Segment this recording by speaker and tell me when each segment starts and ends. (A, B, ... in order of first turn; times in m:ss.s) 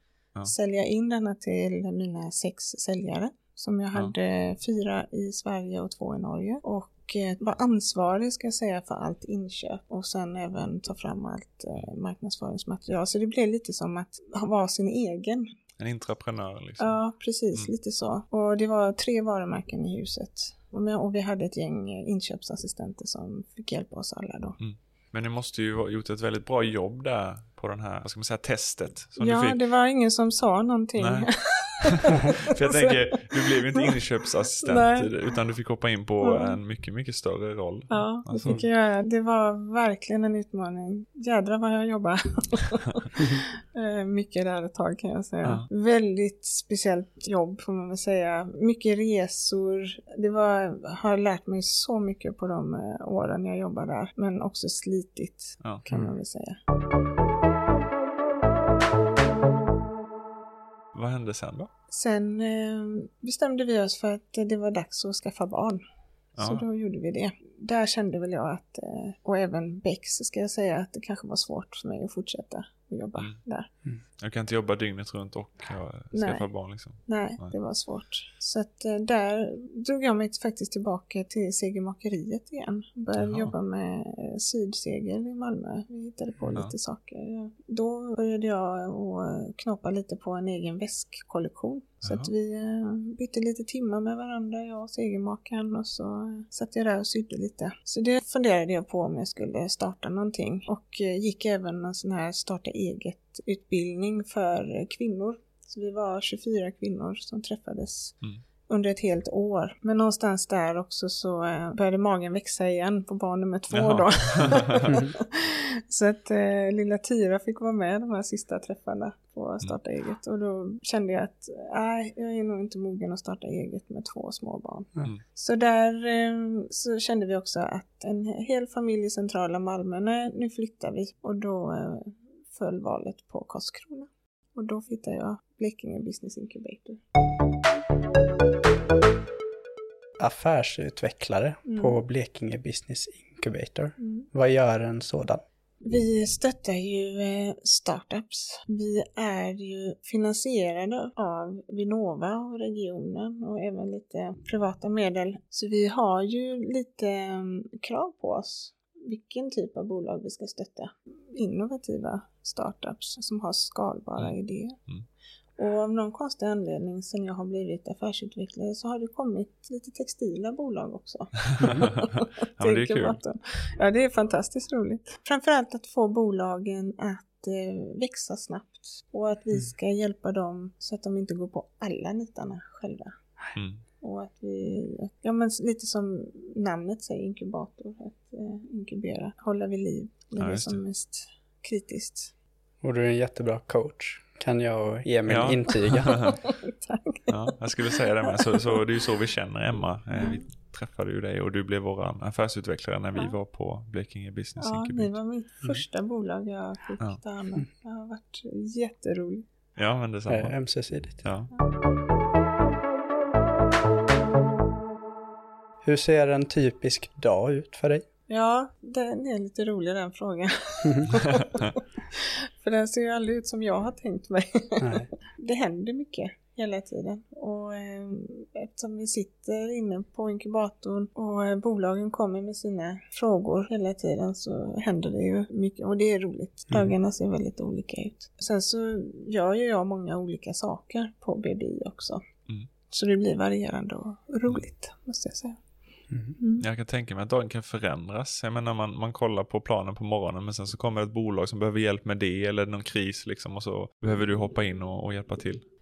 0:00.4-0:15.5 A
0:15.8-0:17.0 B
0:16.8-0:24.6 A
0:24.6-0:29.6 B
0:29.2-0:34.0 A
0:31.0-0:38.6 B
0:34.6-0:35.1 A
0:36.2-0:36.6 A
0:37.9-0:56.6 A
0:45.4-0:45.7 B
0:55.6-0:56.0 B
1:00.9-1:01.7 B
1:01.9-1:05.8 A
1:06.4-1:06.6 B
1:06.4-1:13.7 A
1:14.2-1:17.5 B
1:16.1-1:16.4 A
1:17.0-1:48.2 A
1:23.2-1:23.5 B
1:32.0-1:32.3 B
1:48.7-2:17.0 A
1:53.7-1:55.0 B
2:20.2-2:25.4 C
2:21.6-2:22.0 A
2:24.0-2:24.3 A
2:25.8-2:44.8 A
2:45.6-3:03.1 A
2:51.5-2:53.2 B
3:03.5-3:03.8 B
3:04.0-3:12.3 A
3:10.4-3:10.8 B
3:12.8-3:16.2 C
3:15.3-3:16.4 B
3:16.2-3:18.3 A
3:17.3-3:25.1 B
3:20.2-3:20.4 A
3:24.6-3:29.4 A
3:29.8-3:30.5 B
3:30.3-3:31.3 C
3:31.2-3:31.5 B
3:35.8-3:38.0 C
3:38.3-4:02.2 A
3:44.8-3:45.1 C
4:02.9-4:05.6 A
4:06.4-4:06.6 A
4:06.6-4:15.6 B